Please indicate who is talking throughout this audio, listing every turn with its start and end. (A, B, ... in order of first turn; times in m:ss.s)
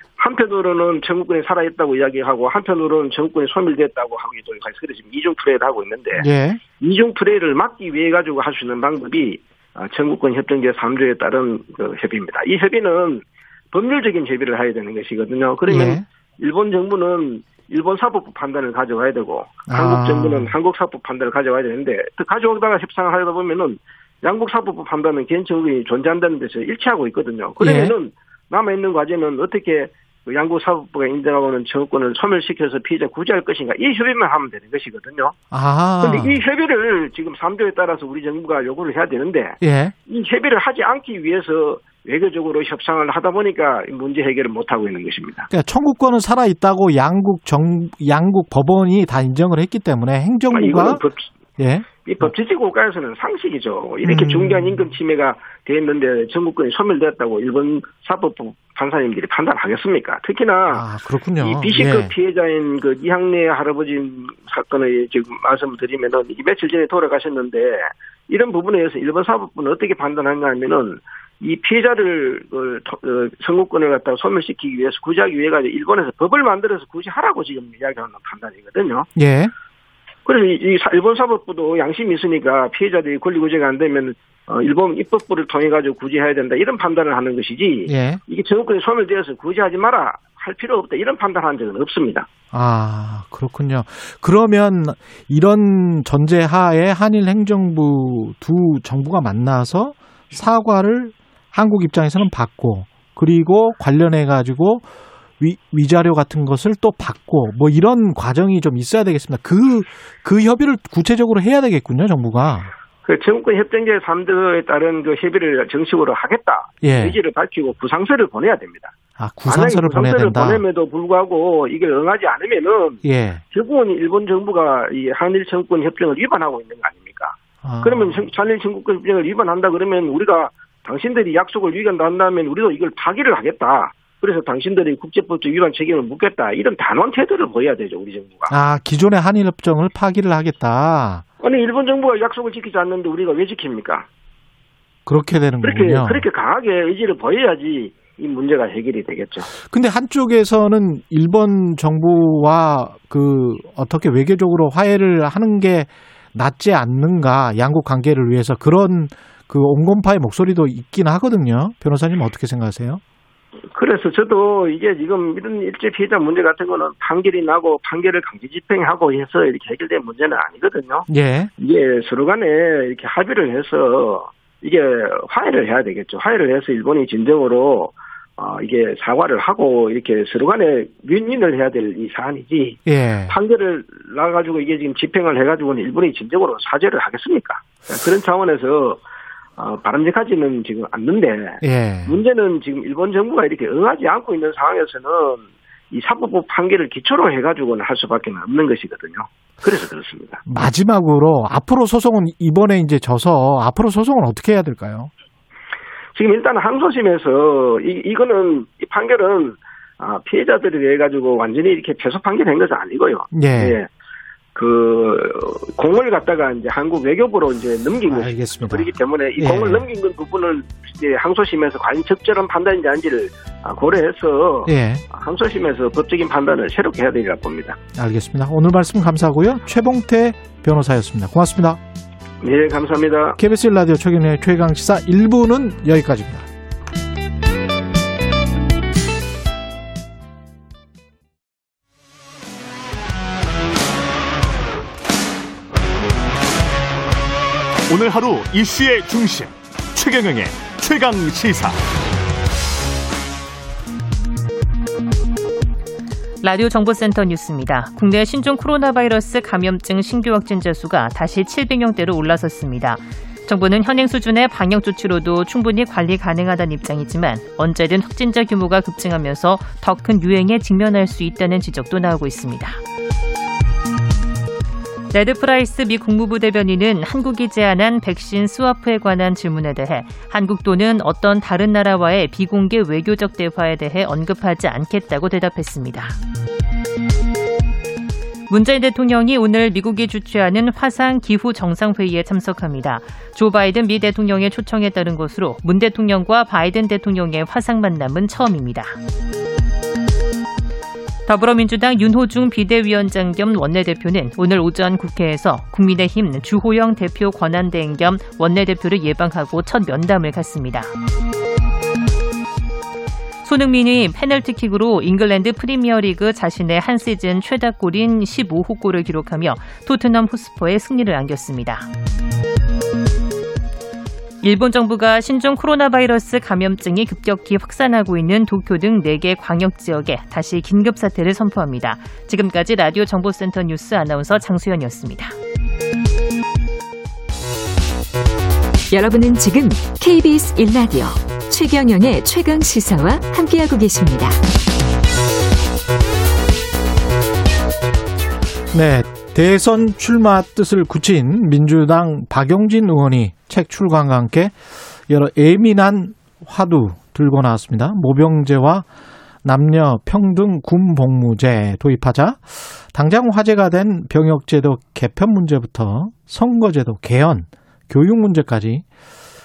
0:00.2-0:06.2 A
0:06.2-0:06.6 B
0:06.8-0:35.4 A
0:15.7-0:16.0 B
0:19.7-0:20.5 B
0:27.6-0:27.9 B
0:35.5-0:36.4 B
0:36.0-0:45.5 A
0:39.6-0:40.0 B
0:45.5-0:51.0 B
0:50.5-0:51.3 A
0:51.6-0:52.3 B
0:52.0-1:00.9 A
0:54.0-0:54.9 B
1:00.7-1:02.1 B
1:01.4-1:19.1 A
1:19.2-1:19.5 B
1:20.2-1:32.3 A
1:27.9-1:28.2 B
1:32.5-1:44.9 B
1:45.4-1:52.7 B
1:53.0-1:58.9 A
1:56.8-1:57.2 B
1:59.2-2:00.6 B
1:59.5-2:03.0 A
2:03.0-2:03.4 B
2:03.5-2:18.5 A
2:07.6-2:08.3 B
2:18.5-2:21.2 B
2:21.4-2:24.1 A
2:25.1-2:26.2 B
2:25.6-2:29.5 A
2:29.5-2:43.0 B
2:43.7-3:09.0 A
2:51.1-2:51.5 B
3:02.9-3:03.4 B
3:09.6-3:20.4 A
3:11.6-3:12.2 B
3:20.5-3:25.1 B
3:26.2-3:33.9 A
3:33.3-3:33.8 B
3:34.6-3:47.8 A
3:38.1-3:39.9 B
3:44.7-3:45.0 B
3:48.0-3:51.8 B
3:52.4-3:53.4 A
3:53.4-3:56.5 B
4:07.9-4:11.8 C
4:16.4-4:32.8 D
4:35.1-4:46.2 D
4:48.5-4:59.0 D
5:01.3-5:10.9 D
5:13.4-5:21.9 D
5:24.4-5:35.4 D
5:38.9-5:44.4 E
5:48.7-5:58.9 B
5:59.4-6:08.8 B